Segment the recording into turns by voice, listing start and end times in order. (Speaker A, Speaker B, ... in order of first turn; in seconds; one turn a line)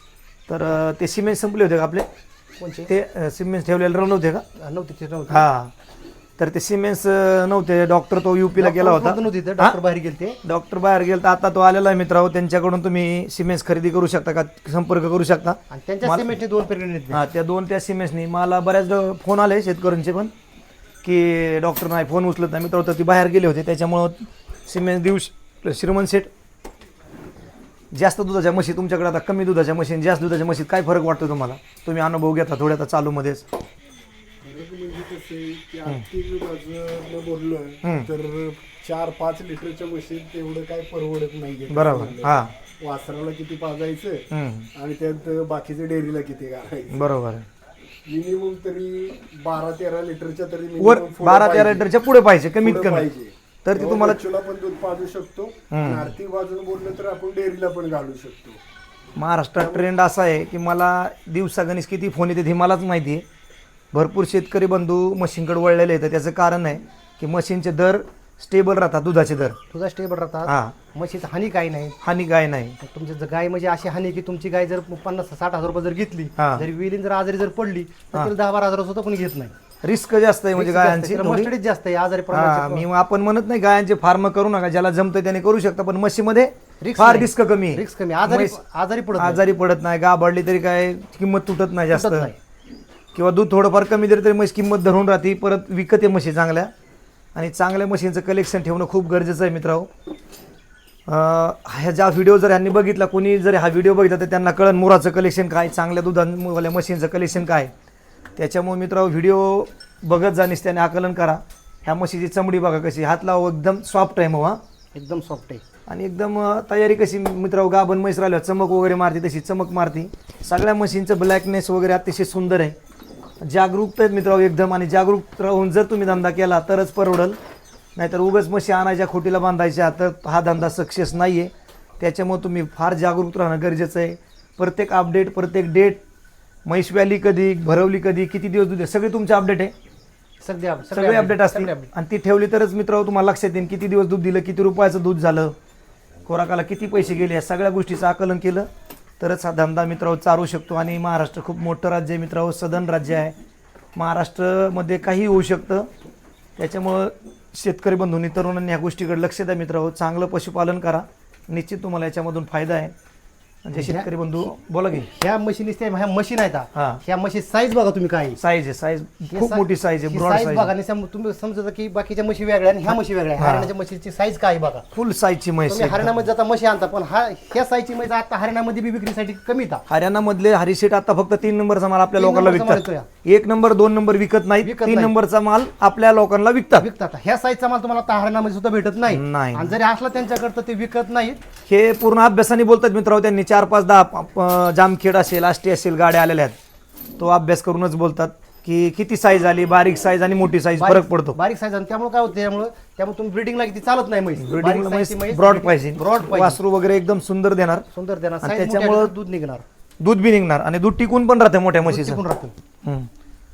Speaker A: 0.5-2.1
Speaker B: 2.6-2.9
Speaker A: 2.9-4.4
Speaker B: 4.5-5.5
Speaker A: 5.3-5.7
Speaker A: 6.4-9.8
Speaker B: 8.6-10.4
Speaker A: 10.4-16.3
Speaker B: 15.7-17.2
Speaker A: 17.1-20.3
Speaker A: 21.0-26.3
Speaker A: 27.9-33.4
Speaker C: 34.4-47.1
Speaker A: 37.8-38.1
Speaker A: 41.7-42.5
Speaker A: 44.3-44.7
Speaker A: 46.9-47.5
Speaker C: 48.0-51.9
Speaker A: 50.8-53.1
Speaker C: 52.6-58.6
Speaker A: 53.6-54.2
Speaker A: 55.7-56.1
Speaker A: 59.1-63.2
Speaker C: 59.6-59.9
Speaker A: 63.9-69.6
Speaker B: 69.7-72.0
Speaker A: 70.5-70.8
Speaker A: 72.0-72.8
Speaker B: 72.8-79.5
Speaker A: 76.4-76.7
Speaker A: 79.8-81.5
Speaker B: 80.5-82.8
Speaker A: 82.3-88.6
Speaker B: 86.8-89.4
Speaker A: 89.2-92.3
Speaker B: 91.9-92.4
Speaker A: 93.1-96.7
Speaker A: 97.3-99.9
Speaker A: 101.0-107.7
Speaker A: 108.4-114.6
Speaker B: 114.9-115.6
Speaker A: 115.9-122.8
Speaker A: 123.4-127.4
Speaker A: 128.0-136.0
Speaker A: 136.6-139.7
Speaker B: 140.4-141.9
Speaker A: 140.9-145.6
Speaker A: 146.2-148.7
Speaker A: 149.2-153.3
Speaker A: 153.9-155.9
Speaker A: 156.6-162.9
Speaker A: 163.6-165.1
Speaker B: 163.7-164.5
Speaker B: 165.1-168.4
Speaker A: 166.7-167.0
Speaker A: 168.4-170.7
Speaker B: 169.3-174.8
Speaker A: 173.4-173.7
Speaker A: 174.9-176.2
Speaker B: 175.7-179.8
Speaker A: 179.9-186.9
Speaker B: 182.2-183.1
Speaker B: 184.6-185.1
Speaker B: 186.8-191.4
Speaker A: 189.1-189.8
Speaker A: 191.7-196.6
Speaker A: 197.2-201.4
Speaker B: 200.8-206.6
Speaker A: 204.4-207.9
Speaker B: 207.9-209.6
Speaker A: 208.4-209.1
Speaker A: 210.0-212.2
Speaker B: 211.8-212.5
Speaker A: 212.8-213.1